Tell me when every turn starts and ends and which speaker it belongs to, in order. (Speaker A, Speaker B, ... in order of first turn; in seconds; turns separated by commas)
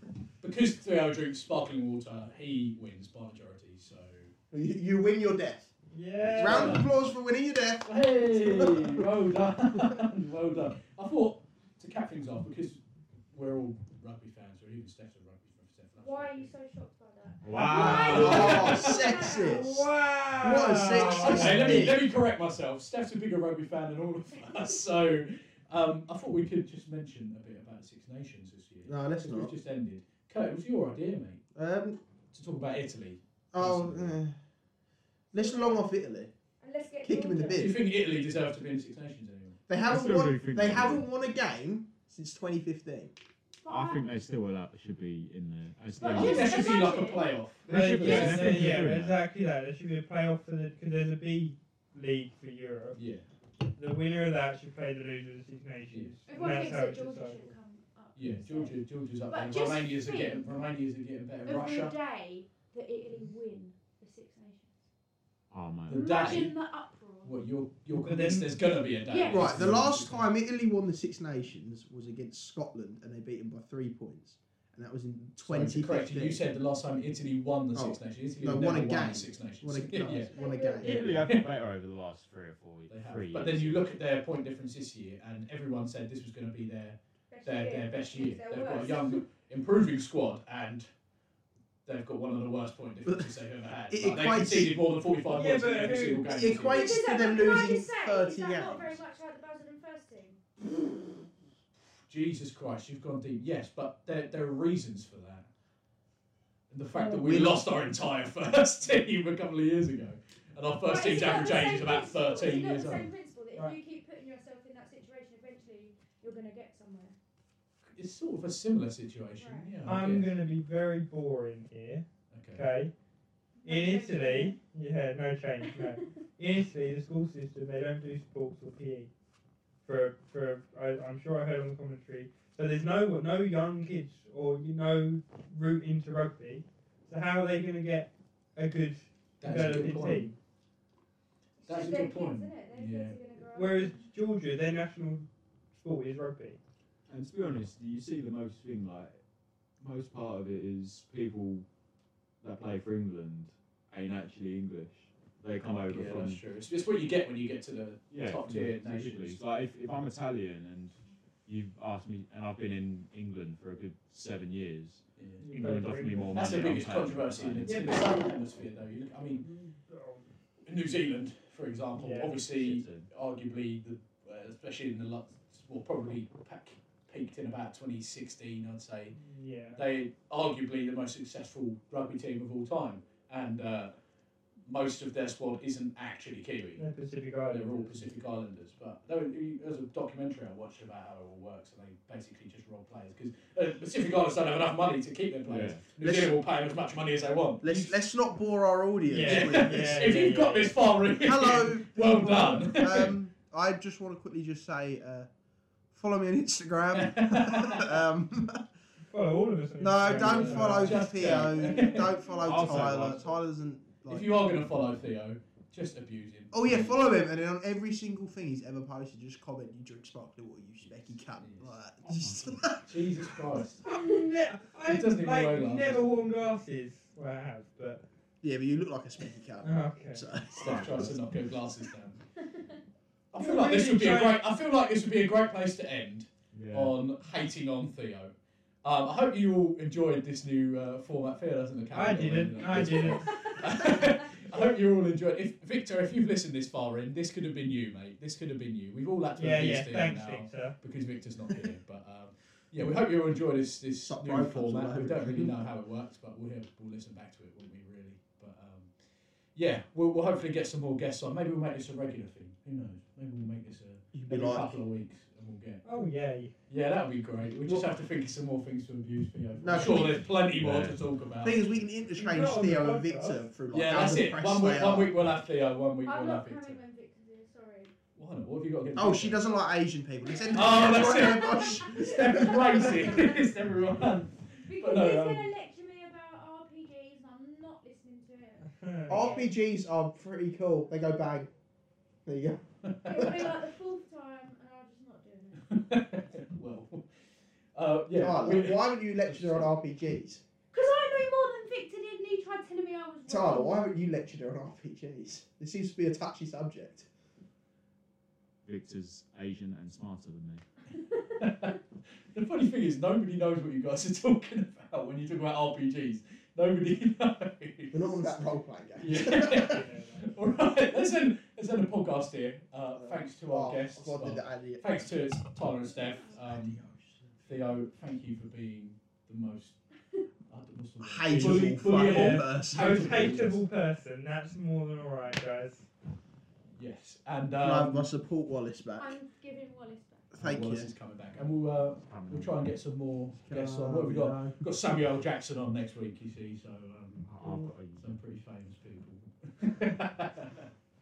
Speaker A: 0.4-4.3, Speaker B: 4.5-5.7, Speaker C: 5.9-6.8, Speaker B: 6.3-9.0, Speaker A: 6.3-6.9, Speaker A: 7.8-12.8, Speaker A: 13.3-16.5, Speaker D: 16.0-19.7, Speaker E: 17.4-18.7, Speaker B: 17.6-22.0, Speaker A: 17.8-19.2, Speaker C: 19.3-21.9, Speaker A: 20.9-31.4, Speaker B: 28.9-29.5, Speaker B: 31.5-32.0, Speaker A: 32.3-34.2, Speaker B: 33.5-34.4, Speaker B: 35.3-36.3, Speaker D: 35.3-35.9, Speaker D: 36.6-37.8, Speaker B: 37.0-37.8, Speaker A: 37.5-39.6, Speaker B: 39.7-43.1, Speaker E: 39.8-41.1, Speaker D: 43.6-44.0, Speaker E: 43.7-46.9, Speaker D: 46.0-47.3, Speaker A: 46.0-48.8, Speaker E: 47.6-49.2, Speaker C: 47.7-53.0, Speaker A: 52.9-53.2, Speaker C: 53.8-57.5, Speaker A: 55.9-56.1, Speaker D: 56.2-60.6, Speaker A: 58.1-61.9, Speaker D: 61.4-64.7, Speaker E: 65.5-66.4, Speaker A: 65.9-66.6, Speaker D: 65.9-67.3, Speaker A: 67.2-70.2, Speaker C: 67.9-68.5, Speaker D: 69.0-69.6, Speaker B: 69.3-76.4, Speaker E: 69.6-69.8, Speaker A: 75.4-81.5, Speaker B: 77.7-81.3, Speaker D: 80.3-81.0, Speaker E: 80.8-83.8, Speaker A: 82.9-90.9, Speaker D: 87.3-89.2, Speaker A: 91.8-97.0, Speaker B: 93.9-94.7, Speaker C: 95.3-96.4, Speaker B: 96.1-99.0, Speaker D: 96.7-100.4, Speaker A: 102.1-105.5, Speaker A: 106.7-113.1, Speaker B: 107.0-107.6, Speaker D: 110.8-117.2, Speaker A: 117.9-120.3, Speaker D: 119.4-119.7, Speaker C: 119.8-122.9, Speaker A: 122.3-122.7, Speaker D: 123.6-124.6, Speaker C: 123.6-129.1, Speaker C: 129.8-140.3, Speaker A: 139.4-140.3, Speaker D: 141.6-144.1, Speaker A: 141.7-143.2, Speaker C: 143.5-146.6, Speaker E: 147.1-149.2, Speaker E: 149.8-151.7, Speaker E: 152.4-156.4, Speaker A: 155.9-159.4, Speaker E: 158.1-167.8, Speaker A: 165.2-165.4, Speaker C: 165.4-166.7, Speaker A: 166.3-169.4, Speaker C: 167.6-168.0, Speaker C: 169.4-170.2, Speaker A: 170.6-179.2, Speaker C: 171.9-172.3, Speaker E: 172.5-173.1, Speaker C: 179.1-179.8, Speaker A: 179.7-183.9, Speaker A: 184.6-186.8, Speaker C: 186.8-188.1, Speaker A: 187.5-197.9, Speaker E: 195.4-195.8, Speaker B: 196.0-196.3, Speaker B: 197.6-200.2, Speaker C: 199.1-200.7, Speaker A: 199.2-203.2, Speaker B: 201.2-205.3, Speaker B: 205.9-208.6, Speaker A: 206.9-207.9, Speaker C: 209.1-211.4, Speaker B: 209.8-214.3, Speaker A: 210.1-213.1, Speaker D: 211.5-212.3, Speaker E: 212.4-213.3, Speaker A: 214.1-217.0, Speaker B: 216.5-223.3, Speaker A: 221.4-221.7, Speaker E: 222.0-222.6, Speaker A: 222.9-224.0, Speaker C: 223.8-228.0, Speaker A: 224.8-226.1, Speaker B: 228.4-231.2, Speaker C: 229.6-230.2, Speaker A: 230.5-232.2, Speaker E: 230.6-231.1, Speaker A: 233.3-258.9, Speaker C: 233.3-234.4, Speaker E: 236.5-237.0, Speaker C: 241.9-243.4, Speaker D: 243.2-243.8, Speaker C: 249.4-250.8, Speaker B: 254.0-255.6, Speaker A: 259.5-265.8, Speaker B: 264.1-264.8, Speaker C: 265.8-266.5, Speaker A: 266.7-271.6, Speaker B: 269.6-270.2, Speaker E: 270.5-271.0, Speaker B: 271.4-275.2, Speaker C: 272.2-273.5, Speaker A: 273.7-276.8, Speaker D: 276.0-277.9, Speaker A: 278.1-279.5, Speaker B: 278.9-283.3, Speaker D: 280.3-283.5, Speaker A: 280.5-285.5, Speaker D: 284.6-289.5, Speaker C: 288.7-289.4, Speaker B: 289.1-291.5, Speaker B: 292.2-293.4, Speaker A: 292.8-293.5, Speaker D: 293.1-295.7, Speaker A: 295.6-297.1, Speaker A: 297.7-299.7, Speaker B: 298.1-300.4, Speaker D: 300.7-303.8, Speaker B: 303.3-307.1, Speaker E: 308.6-310.6, Speaker A: 311.4-311.8, Speaker A: 312.3-318.2, Speaker B: 317.9-319.8, Speaker A: 319.0-326.8, Speaker C: 319.4-320.4, Speaker B: 322.9-325.0, Speaker B: 326.4-327.3, Speaker A: 327.4-329.8, Speaker A: 330.5-333.6, Speaker B: 331.0-333.3, Speaker C: 331.3-335.9, Speaker A: 336.8-338.1, Speaker B: 337.6-339.2, Speaker D: 339.0-340.3, Speaker B: 340.3-340.9, Speaker A: 340.4-347.3, Speaker E: 342.0-342.5, Speaker B: 343.4-344.6, Speaker E: 347.2-348.1, Speaker A: 347.9-350.7